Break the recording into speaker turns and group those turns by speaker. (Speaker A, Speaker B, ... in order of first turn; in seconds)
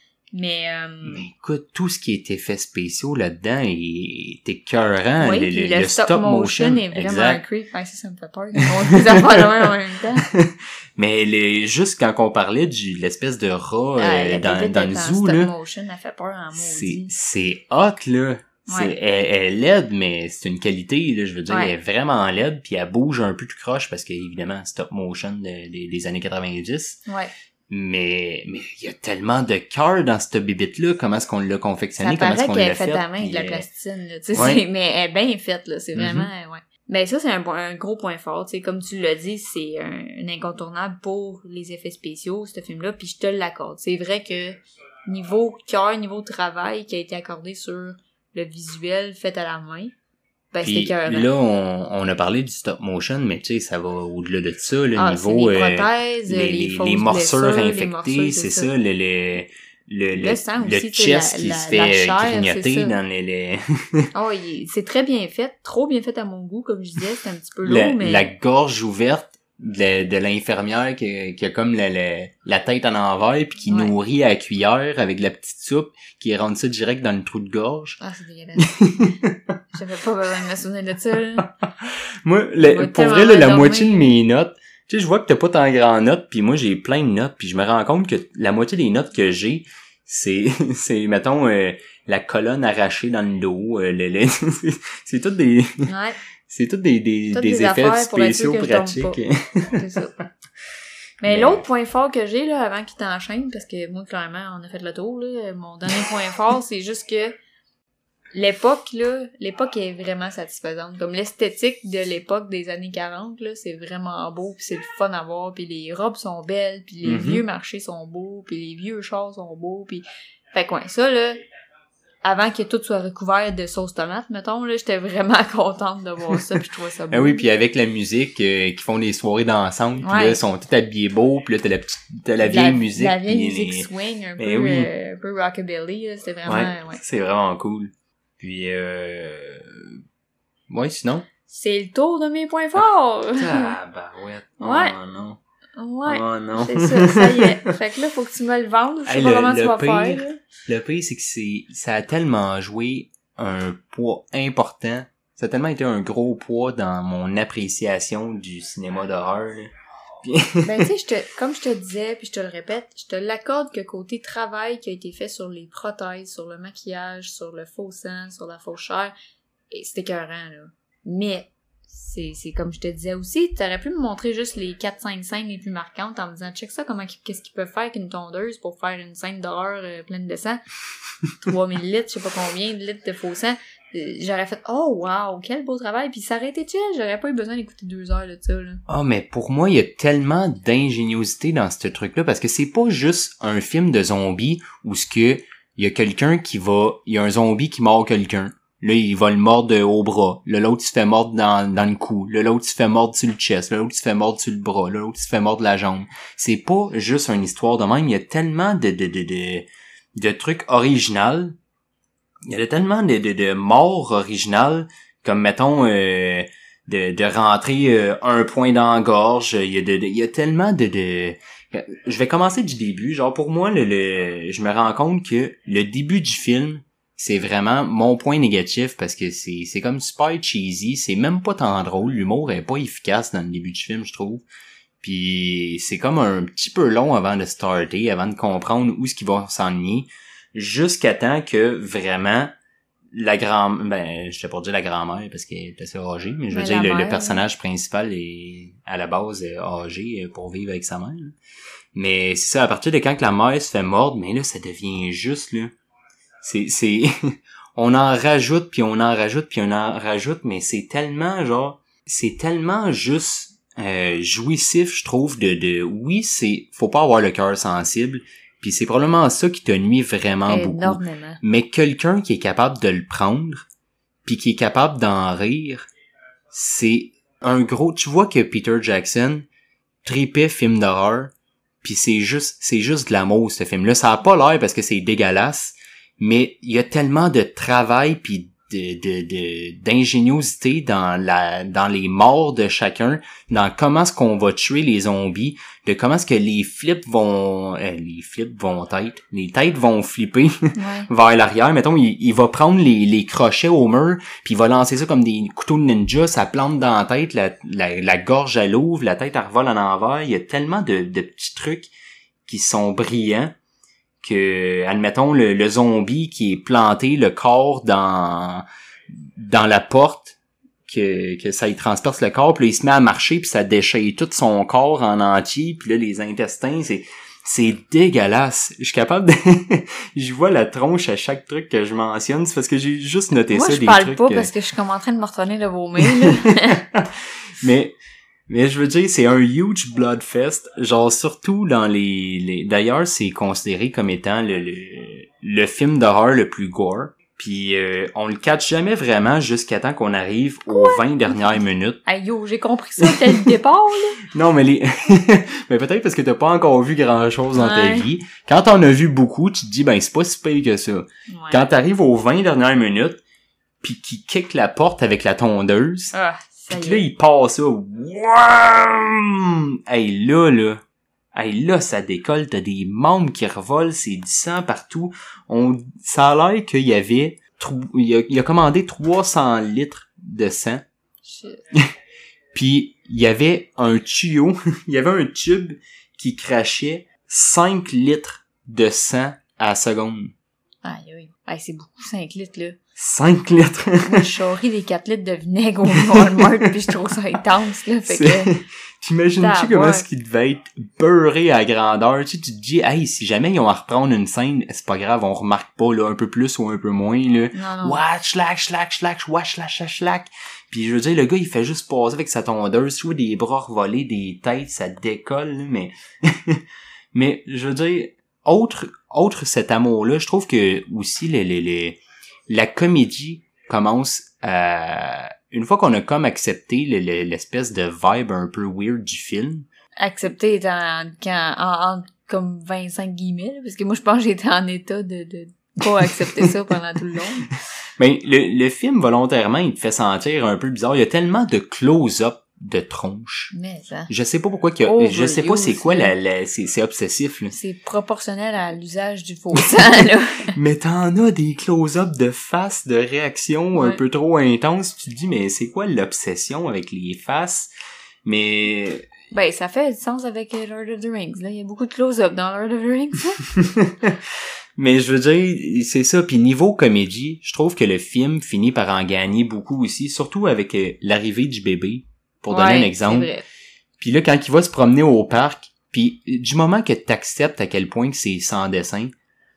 Speaker A: 0.3-1.2, 5.2-10.3, 14.0-17.1, 18.7-18.9, 32.0-49.9, 50.5-51.3, 55.0-58.7, 60.1-63.0, 64.1-68.3, 73.7-73.9, 78.0-79.2, 79.7-81.5, 82.6-84.1, 95.9-96.2, 97.3-99.2, 99.7-100.2, 101.2-107.4, 108.3-121.4, 122.2-127.4, 130.0-130.4, 132.4-137.0, 141.5-143.8, 144.6-144.9, 145.8-150.4, 160.6-169.1, 169.7-180.6, 181.4-188.8, 246.5-247.4, 270.5-271.4, 300.7-301.1, 333.5-336.8, 350.7-354.2, 357.5-358.1, 361.3-361.6, 366.1-367.1, 381.2-381.6, 390.8-392.8, 394.0-398.6, 399.4-400.0, 407.5-408.0, 430.0-437.6, 443.5-444.1, 444.9-446.1, 447.5-450.5, 453.8-454.0, 459.3-463.4, 472.5-473.4
Speaker B: 1.1-7.4, 8.7-15.5, 16.6-27.0, 27.7-33.7, 34.3-34.6, 35.9-36.3, 50.6-64.1, 67.6-78.0, 78.6-79.6, 81.8-95.9, 96.5-99.8, 101.2-101.6, 117.0-117.4, 127.1-134.9, 136.4-140.0, 140.7-141.3, 143.4-145.4, 146.1-147.5, 149.1-159.7, 160.2-160.8, 188.9-211.6, 212.5-234.4, 235.0-242.5, 243.1-251.4, 251.9-255.7, 256.4-273.6, 274.2-275.9, 276.5-279.5, 280.1-311.9, 312.4-313.6, 314.2-334.5, 336.0-337.9, 338.5-352.0, 353.0-353.5, 354.2-363.2, 363.8-366.1, 366.7-370.8, 371.3-380.9, 382.5-390.3, 393.0-394.4, 395.9-396.8, 398.1-429.7, 436.0-436.5, 438.0-443.5, 444.1-447.6, 450.5-457.7, 458.2-459.1, 463.5-473.3, 474.0-479.1